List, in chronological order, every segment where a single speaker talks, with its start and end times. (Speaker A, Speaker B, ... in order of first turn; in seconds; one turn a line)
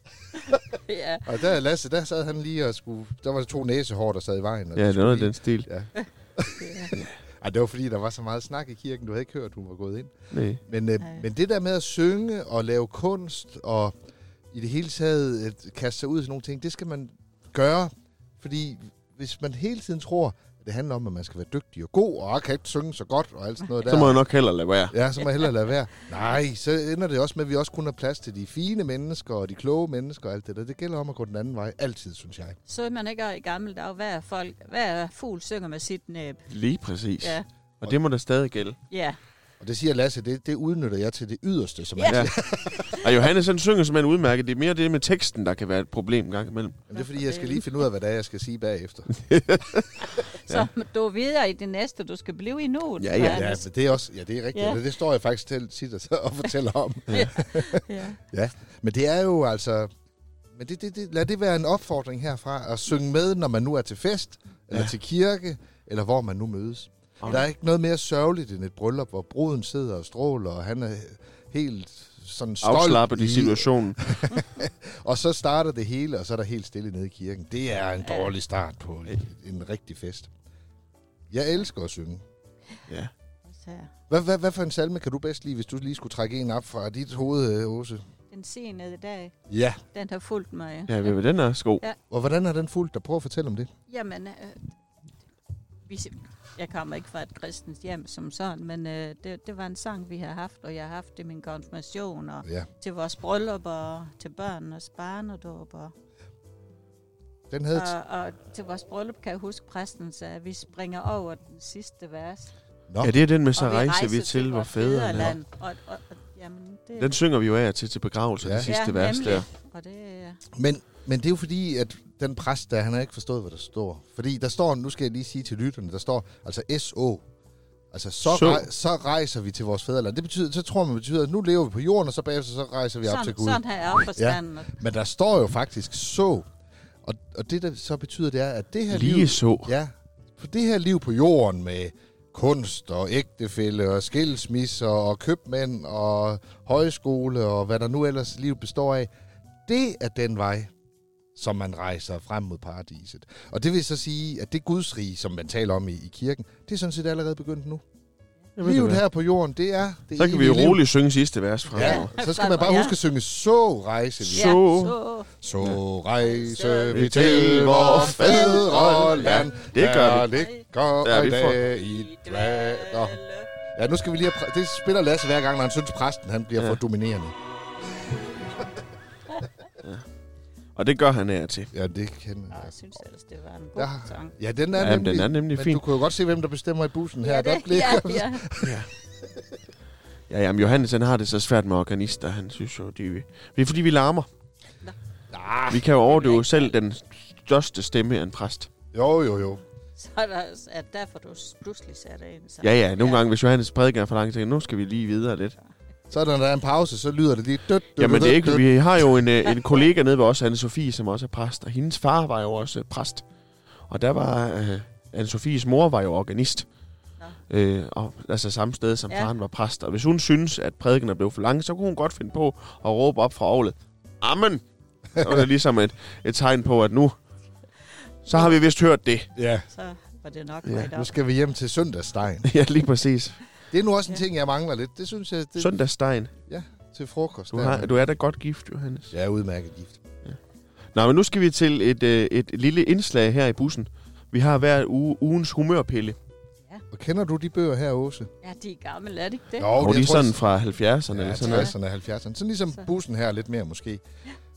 Speaker A: 0.3-1.4
Speaker B: 1.2-10.1
Speaker C: 4.8-5.7
Speaker A: 6.0-6.9
Speaker C: 10.3-10.6
Speaker B: 10.6-13.9
Speaker A: 11.0-11.2
Speaker B: 14.5-24.2
Speaker C: 23.8-24.9
Speaker B: 24.9-32.6
Speaker A: 32.7-36.5
Speaker C: 36.5-38.8
Speaker A: 38.9-39.2
Speaker B: 39.6-43.1
Speaker A: 42.0-43.0
Speaker C: 42.1-46.8
Speaker B: 46.9-49.1
Speaker A: 47.0-47.8
Speaker C: 49.1-50.7
Speaker A: 50.2-53.7
Speaker C: 53.0-53.5
Speaker B: 53.2-59.9
Speaker A: 54.5-54.8
Speaker A: 57.1-58.2
Speaker B: 60.5-80.3
Speaker C: 67.2-67.5
Speaker C: 72.6-74.1
Speaker A: 78.0-78.3
Speaker B: 81.3-82.2
Speaker A: 83.5-83.9
Speaker B: 84.1-88.0
Speaker A: 88.3-89.3
Speaker B: 89.5-89.8
Speaker A: 89.9-91.2
Speaker C: 90.9-91.8
Speaker B: 92.1-93.7
Speaker A: 93.9-94.7
Speaker A: 95.9-105.9
Speaker B: 107.5-107.9
Speaker A: 107.7-112.5
Speaker B: 112.9-113.2
Speaker C: 113.0-115.4
Speaker A: 113.6-117.2
Speaker C: 117.0-119.5
Speaker B: 118.4-118.7
Speaker A: 118.6-120.4
Speaker B: 120.5-127.2
Speaker B: 127.9-136.5
Speaker C: 128.3-128.7
Speaker A: 133.1-134.8
Speaker B: 137.0-149.1
Speaker C: 138.9-139.7
Speaker B: 149.7-150.7
Speaker B: 151.3-157.8
Speaker C: 158.6-159.0
Speaker B: 158.6-160.8
Speaker C: 160.2-162.1
Speaker B: 161.7-164.6
Speaker A: 161.8-163.0
Speaker C: 164.2-164.9
Speaker A: 164.3-165.3
Speaker B: 165.4-173.2
Speaker A: 166.2-169.2
Speaker C: 166.9-170.3
Speaker A: 170.2-170.7
Speaker C: 171.0-171.6
Speaker A: 171.7-173.5
Speaker B: 173.8-177.4
Speaker C: 180.8-181.7
Speaker B: 181.7-182.7
Speaker A: 182.5-184.3
Speaker B: 183.8-188.8
Speaker C: 184.8-185.8
Speaker A: 187.2-188.4
Speaker C: 188.6-188.9
Speaker C: 190.3-194.3
Speaker B: 195.3-195.8
Speaker C: 195.7-198.7
Speaker A: 196.1-196.8
Speaker B: 198.9-199.6
Speaker A: 200.0-203.3
Speaker C: 202.6-205.6
Speaker B: 206.1-208.7
Speaker C: 208.0-213.2
Speaker A: 209.5-209.8
Speaker C: 213.9-216.7
Speaker C: 217.5-224.6
Speaker B: 225.2-225.5
Speaker C: 225.2-227.2
Speaker C: 228.3-229.3
Speaker A: 228.3-228.6
Speaker B: 229.4-229.7
Speaker A: 229.7-231.1
Speaker B: 230.9-232.5
Speaker C: 232.4-233.4
Speaker B: 233.7-235.7
Speaker C: 235.6-236.3
Speaker B: 236.5-238.0
Speaker C: 237.5-239.1
Speaker B: 239.1-240.0
Speaker C: 240.9-246.2
Speaker B: 246.9-248.3
Speaker A: 248.4-249.7
Speaker B: 249.6-250.4
Speaker C: 249.8-251.7
Speaker B: 251.1-254.0
Speaker A: 251.4-251.7